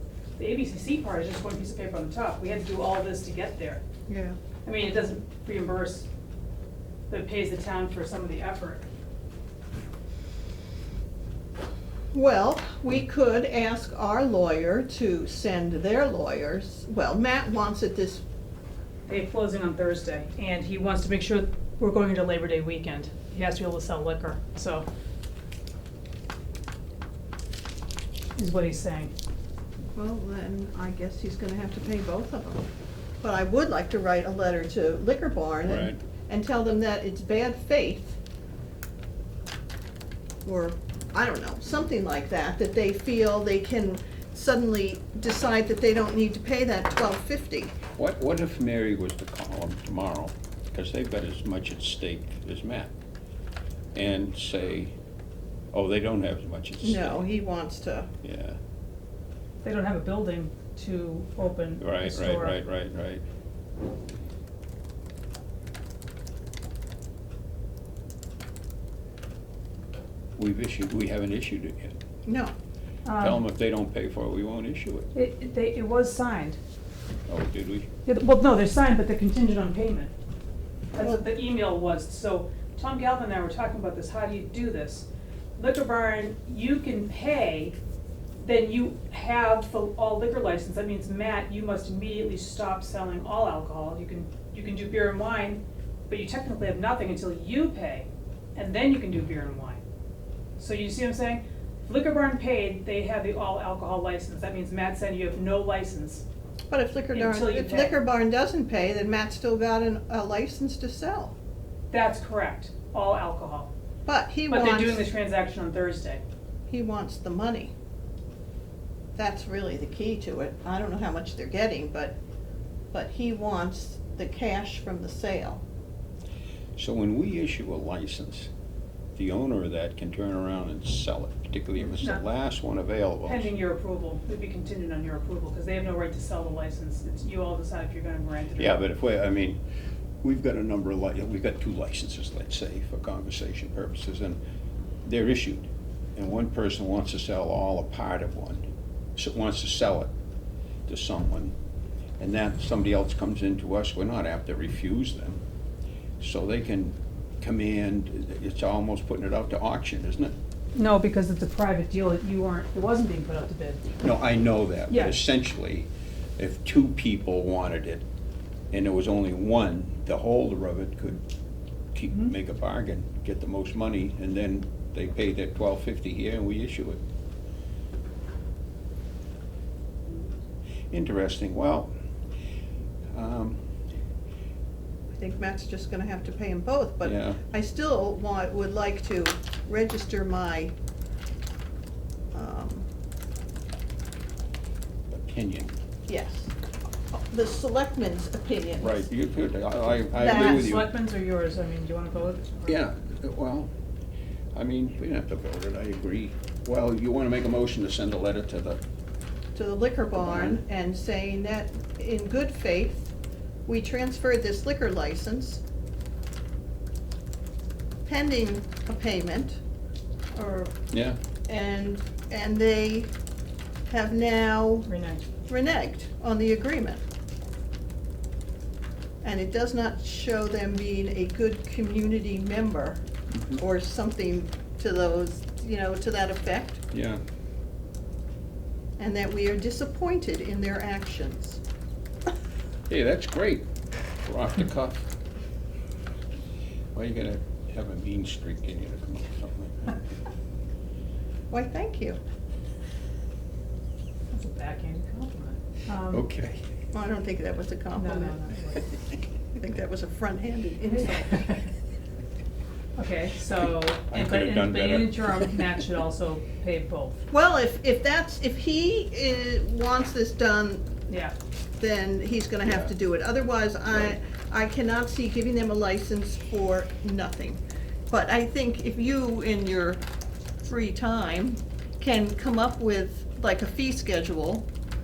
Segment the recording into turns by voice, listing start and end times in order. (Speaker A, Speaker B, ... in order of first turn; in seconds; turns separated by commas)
Speaker A: 0.4-3.8, Speaker B: 4.1-4.4, Speaker A: 4.7-6.1, Speaker A: 7.1-8.8, Speaker B: 12.1-18.2, Speaker A: 19.1-24.9, Speaker A: 28.4-29.1, Speaker B: 29.9-32.7, Speaker B: 33.2-38.2, Speaker C: 35.6-36.0, Speaker B: 40.5-47.8, Speaker C: 48.0-52.9, Speaker C: 54.0-54.9, Speaker C: 55.7-57.3, Speaker B: 56.8-58.1, Speaker C: 58.2-58.6, Speaker A: 59.6-62.6, Speaker C: 61.8-63.2, Speaker C: 70.4-72.0, Speaker B: 72.2-72.5, Speaker A: 73.0-73.4, Speaker C: 73.2-75.1, Speaker A: 75.1-76.6, Speaker C: 77.3-77.9, Speaker A: 78.0-80.1, Speaker A: 80.9-85.1, Speaker B: 81.0-81.2, Speaker A: 85.6-87.8, Speaker A: 88.4-99.8, Speaker A: 100.6-106.2, Speaker B: 106.7-111.4, Speaker A: 107.1-108.0, Speaker A: 111.9-113.7, Speaker B: 114.1-115.1, Speaker A: 114.5-116.2, Speaker B: 116.7-117.7, Speaker B: 119.2-122.2, Speaker B: 122.9-125.6, Speaker C: 126.8-128.5, Speaker C: 129.2-133.5, Speaker A: 131.9-132.2, Speaker A: 133.2-138.8, Speaker C: 138.6-139.6, Speaker C: 140.2-144.4, Speaker C: 145.0-148.6, Speaker C: 149.2-150.1, Speaker C: 150.9-151.5, Speaker C: 152.2-155.4, Speaker C: 156.2-160.3, Speaker A: 160.8-163.8, Speaker C: 164.0-168.0, Speaker A: 164.9-165.2, Speaker C: 168.7-171.2, Speaker C: 171.9-177.0, Speaker C: 180.9-181.9, Speaker C: 183.1-183.6, Speaker B: 185.2-190.7, Speaker C: 187.0-187.4, Speaker B: 192.3-192.9, Speaker C: 195.1-195.7, Speaker B: 196.1-196.5, Speaker B: 197.2-199.1, Speaker C: 198.8-200.9, Speaker B: 200.2-200.7, Speaker A: 200.2-202.8, Speaker C: 202.7-203.7, Speaker C: 204.5-208.8, Speaker B: 209.5-213.2, Speaker C: 210.2-210.6, Speaker B: 213.7-215.6, Speaker B: 218.1-219.6, Speaker B: 220.3-220.7, Speaker C: 220.9-221.2, Speaker B: 221.5-223.1, Speaker B: 223.9-224.9, Speaker A: 224.9-225.2, Speaker B: 225.5-227.0, Speaker B: 229.2-233.0, Speaker C: 233.3-233.6, Speaker B: 233.6-236.8, Speaker C: 236.9-237.2, Speaker B: 239.0-241.6, Speaker C: 242.9-243.7, Speaker C: 244.2-245.0, Speaker C: 246.9-250.0, Speaker B: 251.5-252.2, Speaker A: 254.3-256.2, Speaker C: 256.1-256.6, Speaker B: 256.9-258.4, Speaker A: 257.9-258.9, Speaker B: 259.2-261.6, Speaker A: 261.0-261.6, Speaker A: 262.9-267.2, Speaker C: 263.6-265.6, Speaker B: 267.3-270.9, Speaker A: 271.1-271.3, Speaker B: 271.8-280.0, Speaker C: 272.6-272.9, Speaker B: 280.6-284.6